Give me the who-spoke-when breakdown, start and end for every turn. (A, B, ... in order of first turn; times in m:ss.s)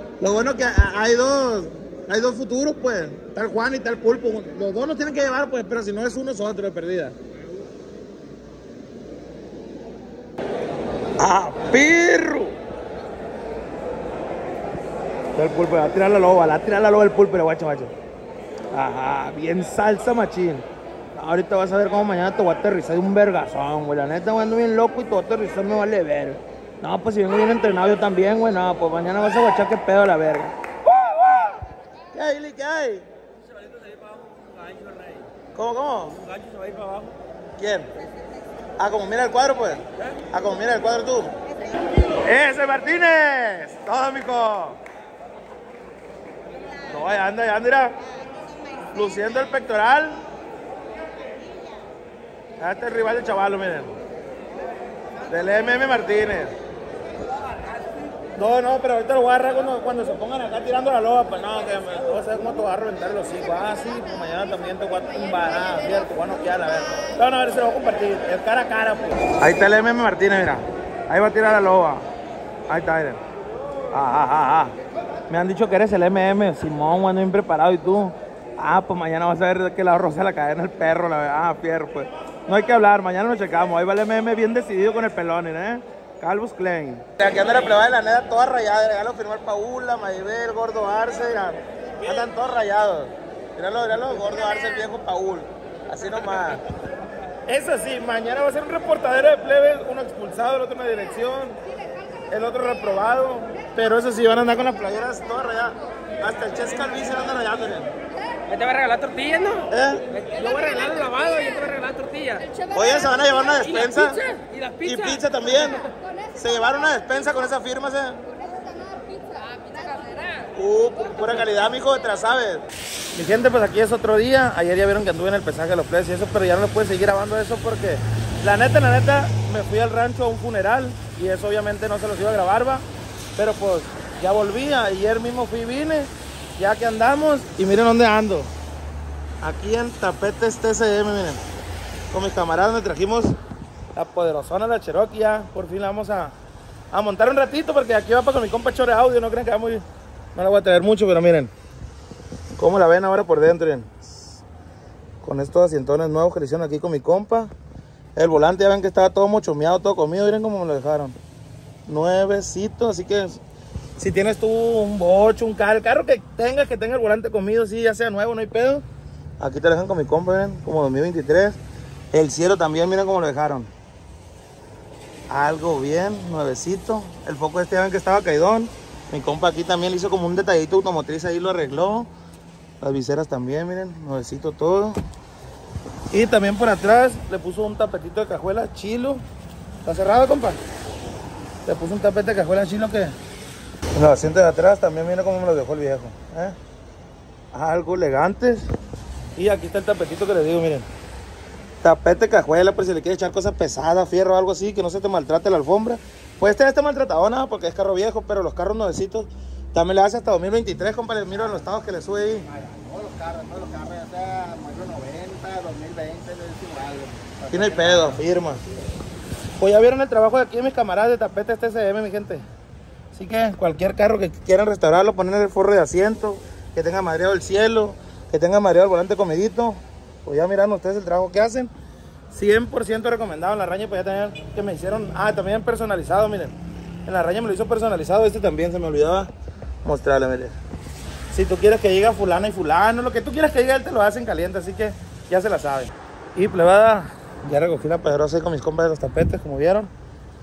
0:00.2-0:07.2 A
0:11.2-0:12.6 A
0:15.3-0:17.9 A
0:18.7-0:30.6 A
0:32.1-0:33.1 A
0:33.5-0:35.3 B
0:35.5-0:36.2 A
0:36.2-0:37.1 B
0:37.6-0:37.9 A
0:38.8-0:41.4 A
0:42.2-0:44.8 A
0:46.9-0:48.0 A
0:48.9-0:50.2 A
0:52.6-0:54.0 A
0:55.3-0:56.6 A
0:58.4-1:12.0 A
1:12.7-1:13.2 A
1:13.9-1:14.8 A
1:15.3-1:36.6 A
1:37.5-1:41.6 A
1:42.3-1:47.9 A
1:48.5-1:49.6 B
1:49.7-1:50.0 A
1:50.2-1:52.5 B
1:52.7-1:54.2 A
1:54.0-1:55.2 B
1:54.8-1:58.2 A
2:00.5-2:12.8 A
2:13.4-2:18.5 A
2:19.4-2:21.4 A
2:22.1-2:23.4 A
2:24.0-2:26.4 A
2:26.9-2:29.8 A
2:30.4-2:31.5 A
2:32.6-2:33.9 A
2:35.2-2:37.5 A
2:38.2-2:41.2 A
2:41.9-2:43.4 A
2:44.0-2:48.8 A
2:49.4-2:51.6 A
2:52.1-2:53.7 A
2:55.3-3:02.1 A
3:02.8-3:05.0 A
3:06.1-3:09.2 A
3:09.8-3:10.6 A
3:11.6-3:13.2 A
3:13.9-3:16.6 A
3:17.5-3:18.6 A
3:19.4-3:20.9 A
3:21.8-3:32.5 A
3:33.4-3:34.1 C
3:34.6-3:38.1 C
3:37.5-3:38.6 A
3:39.6-3:42.4 A
3:43.1-3:51.7 A
3:52.3-3:56.6 A
3:57.1-3:59.3 A
3:59.8-4:00.5 A
4:01.3-4:09.9 A